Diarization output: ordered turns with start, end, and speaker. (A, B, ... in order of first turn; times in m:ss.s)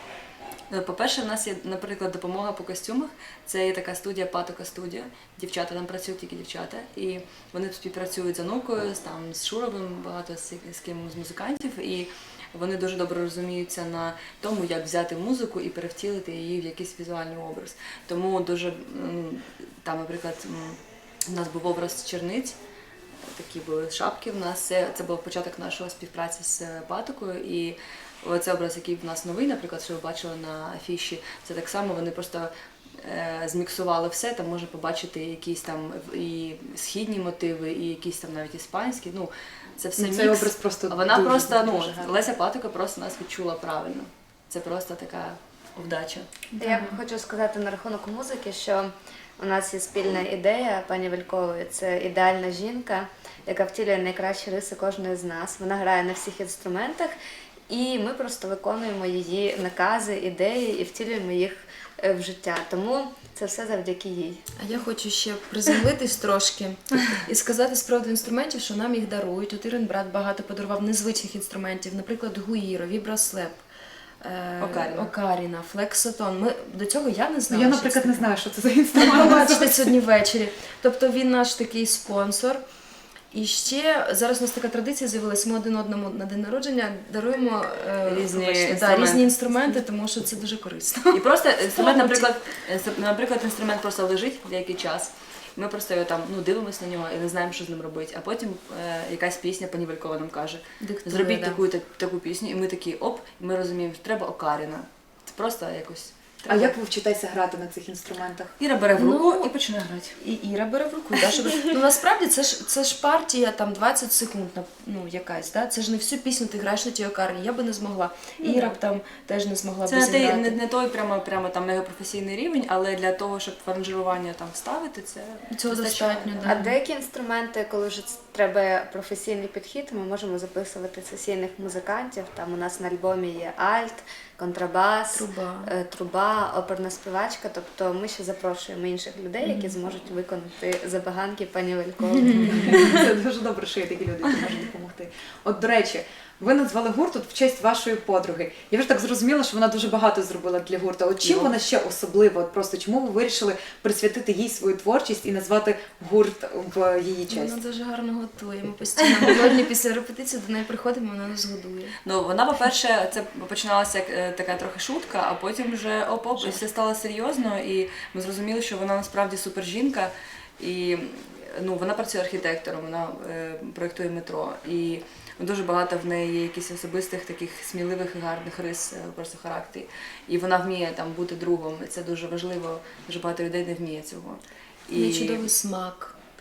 0:00.7-0:22.6 A
0:23.3-0:46.4 A
0:40.0-0:42.3 B
0:46.5-0:47.0 C
0:46.6-0:57.1 D
0:57.7-1:04.4 D
1:04.6-1:13.6 C
1:14.2-1:18.3 C
1:14.6-1:15.1 A
1:17.5-1:19.9 B
1:18.9-1:22.6 C
1:23.3-1:32.3 C
1:28.0-1:29.8 A
1:31.1-1:46.7 A
1:40.8-1:41.6 C
1:46.5-1:48.5 B
1:48.6-1:50.2 A
1:48.9-1:49.5 C
1:50.2-2:00.6 C
1:58.4-1:58.8 A
1:59.8-2:06.6 A
2:05.5-2:06.7 C
2:06.4-2:23.1 D
2:15.1-2:15.7 C
2:19.4-2:19.8 C
2:22.1-2:22.7 C
2:22.3-2:22.8 A
2:22.4-2:37.6 B
2:31.2-2:31.6 A
2:37.3-2:41.9 C
2:42.0-3:05.5 A
3:04.9-3:06.1 C